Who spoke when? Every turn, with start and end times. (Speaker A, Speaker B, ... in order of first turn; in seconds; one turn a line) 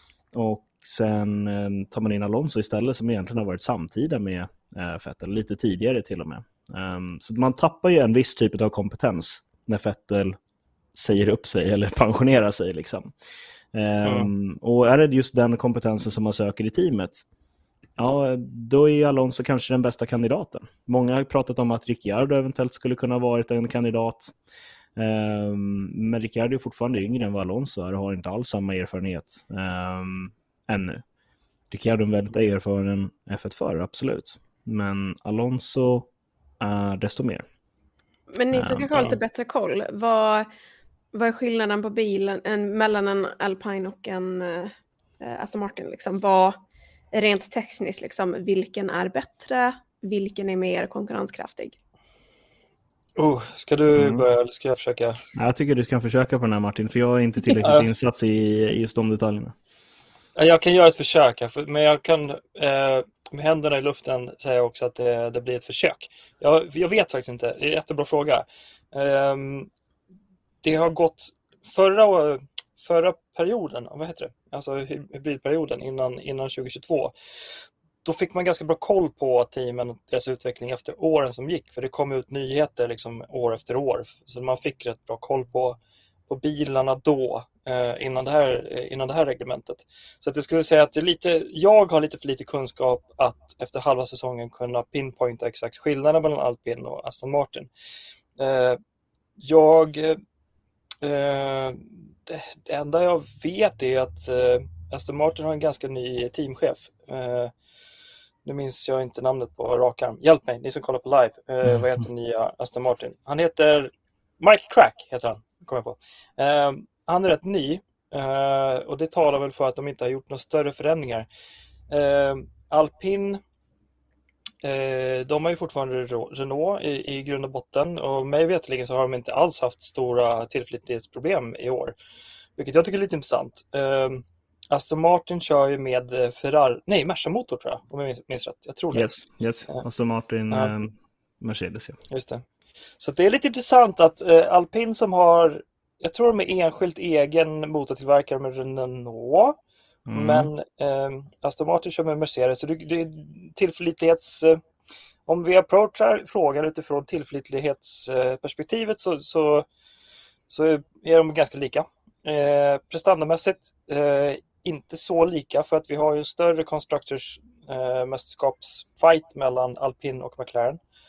Speaker A: 0.3-10.4
Speaker A: 10.9-13.1
Speaker A: 13.7-17.2
Speaker B: 14.0-14.3
Speaker A: 18.0-24.3
Speaker A: 24.9-31.0
Speaker A: 31.7-36.1
Speaker A: 36.6-37.4
Speaker C: 38.3-40.5
Speaker A: 38.5-38.9
Speaker C: 41.1-46.6
Speaker C: 47.1-51.8
Speaker B: 53.1-55.2
Speaker A: 53.9-54.2
Speaker A: 55.3-59.5
Speaker B: 57.5-57.9
Speaker B: 60.3-69.7
Speaker B: 70.6-97.7
Speaker B: 98.4-98.8
Speaker B: 99.4-100.2
Speaker B: 101.0-107.5
Speaker B: 108.4-121.3
Speaker B: 121.9-123.4
Speaker B: 124.6-131.9
Speaker B: 132.6-139.1
Speaker A: 138.9-142.0
Speaker B: 142.1-142.4
Speaker B: 143.0-149.6
Speaker A: 150.1-150.5
Speaker B: 150.1-154.6
Speaker B: 155.2-159.7
Speaker B: 160.5-170.8